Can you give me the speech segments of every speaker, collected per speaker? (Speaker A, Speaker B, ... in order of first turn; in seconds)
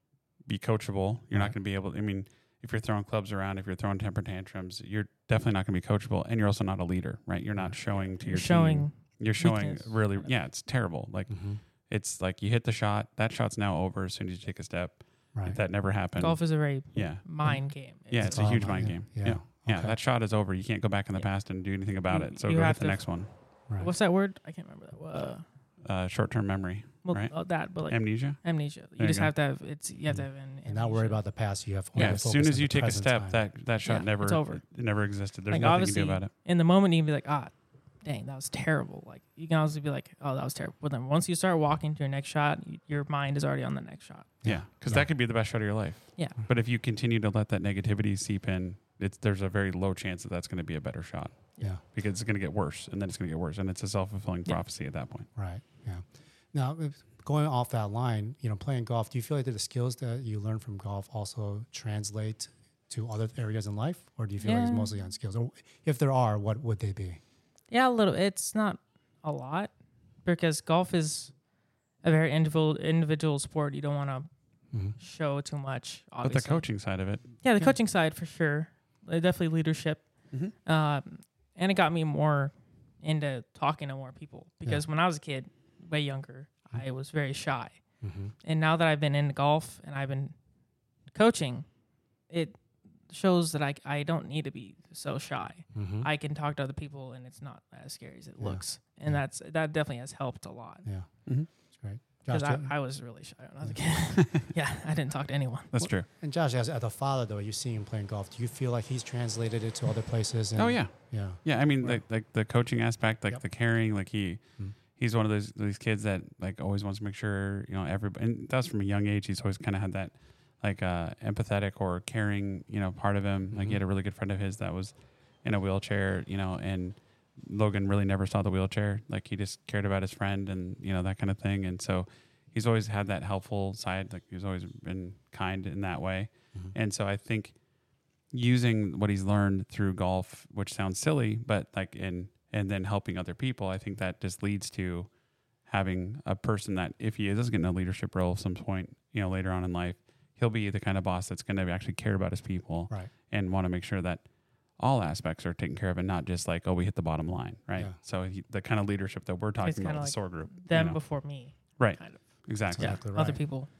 Speaker A: 0.5-17.5, 18.1-23.3, 25.8-29.3, 32.0-36.3, 44.4-55.3, 76.2-77.3, 104.0-104.5, 105.7-106.0, 110.5-114.4, 114.9-137.5, 138.3-145.1, 145.7-154.2, 154.8-161.0, 161.8-163.0
Speaker B: 8.2-10.3, 16.2-18.5, 22.1-23.1, 23.8-25.4, 27.0-31.2, 33.8-34.6, 35.5-44.3, 64.4-64.9, 67.7-69.7, 70.2-71.3, 72.0-74.3, 75.0-76.6, 77.4-80.0, 80.6-87.8, 88.4-90.3, 91.1-91.7, 92.3-100.8, 102.3-105.7, 159.6-162.2, 162.8-163.7
Speaker C: 11.3-11.6, 15.3-15.6, 18.2-19.9, 30.1-33.4, 44.4-45.1, 55.4-67.2, 88.0-88.3, 95.7-96.1, 98.4-99.2, 101.7-102.7, 105.8-112.0, 123.5-123.8, 162.7-163.4